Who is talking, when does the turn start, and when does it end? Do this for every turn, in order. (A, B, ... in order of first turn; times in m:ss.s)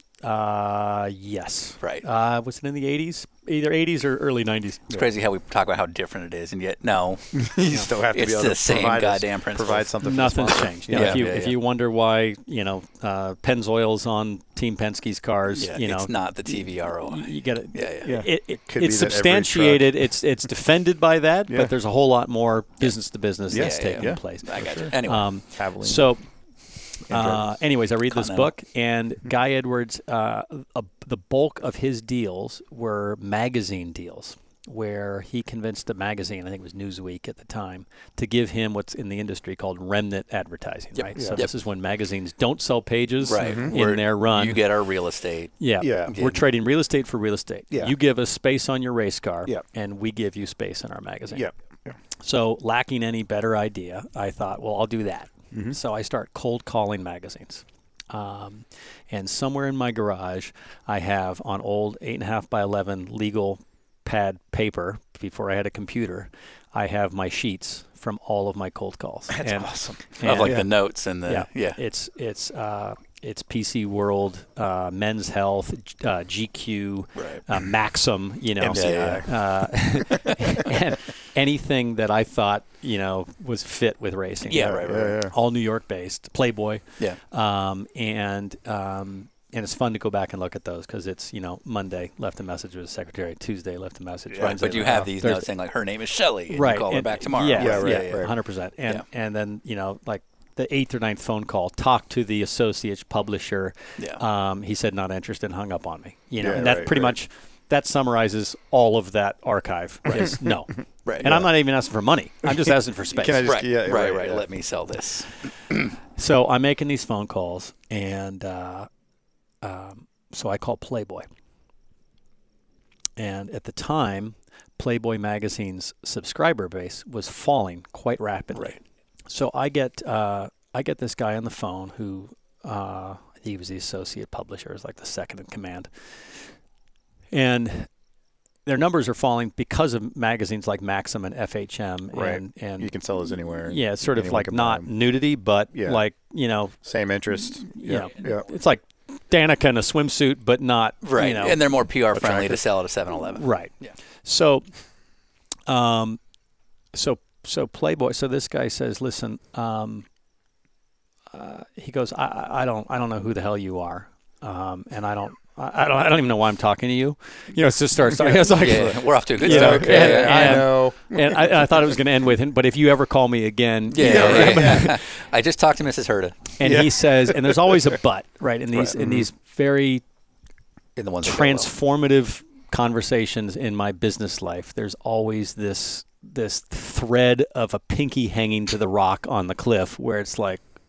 0:00.2-0:04.9 A
0:04.9-0:07.4 B
0:07.3-0:11.3 C
0:08.1-0:09.9 B
0:10.0-0:26.2 A
0:10.9-0:11.6 B
0:15.5-0:18.1 B
0:18.0-0:20.0 C
0:21.5-0:21.7 C
0:23.5-0:24.9 C
0:23.5-0:25.3 B
0:25.6-0:26.1 C
0:27.1-0:44.6 A
0:27.1-0:27.5 C
0:28.0-0:28.5 B
0:41.0-0:41.5 B
0:43.2-0:45.5 B
0:43.4-0:43.7 C
0:45.6-0:51.5 A
0:45.8-0:46.2 C
0:46.1-0:46.4 B
0:51.3-0:52.0 C
0:52.2-1:10.7 A
0:55.5-0:55.8 C
1:09.3-1:10.7 C
1:10.2-1:11.8 B
1:11.2-1:35.5 A
1:17.2-1:17.4 B
1:18.6-1:19.3 C
1:18.7-1:19.3 B
1:24.5-1:25.2 B
1:24.5-1:25.3 C
1:34.3-1:34.9 C
1:34.4-1:38.3 B
1:36.5-1:53.5 A
1:37.5-1:38.3 C
1:46.4-1:47.2 C
1:50.1-1:50.5 C
1:51.0-1:51.3 B
1:53.1-1:54.5 C
1:53.4-1:55.8 B
1:56.2-1:58.9 A
1:59.6-2:01.2 A
2:03.2-2:08.8 A
2:09.3-2:15.9 A
2:17.3-2:17.9 A
2:18.6-2:22.9 A
2:22.1-2:24.9 C
2:23.6-2:26.8 A
2:25.7-2:26.0 C
2:26.8-2:28.5 C
2:27.7-2:31.6 A
2:31.0-2:33.9 B
2:32.1-2:32.6 C
2:33.3-2:34.6 A
2:35.7-2:36.2 A
2:36.9-2:40.0 A
2:41.3-2:55.0 A
2:48.1-2:48.7 C
2:48.5-2:50.6 B
2:49.4-2:51.8 C
2:53.9-2:56.5 B
2:54.0-2:54.9 C
2:56.6-3:00.0 A
2:56.6-2:58.0 C
2:58.7-2:59.3 C
3:01.0-3:01.7 B
3:01.2-3:10.6 A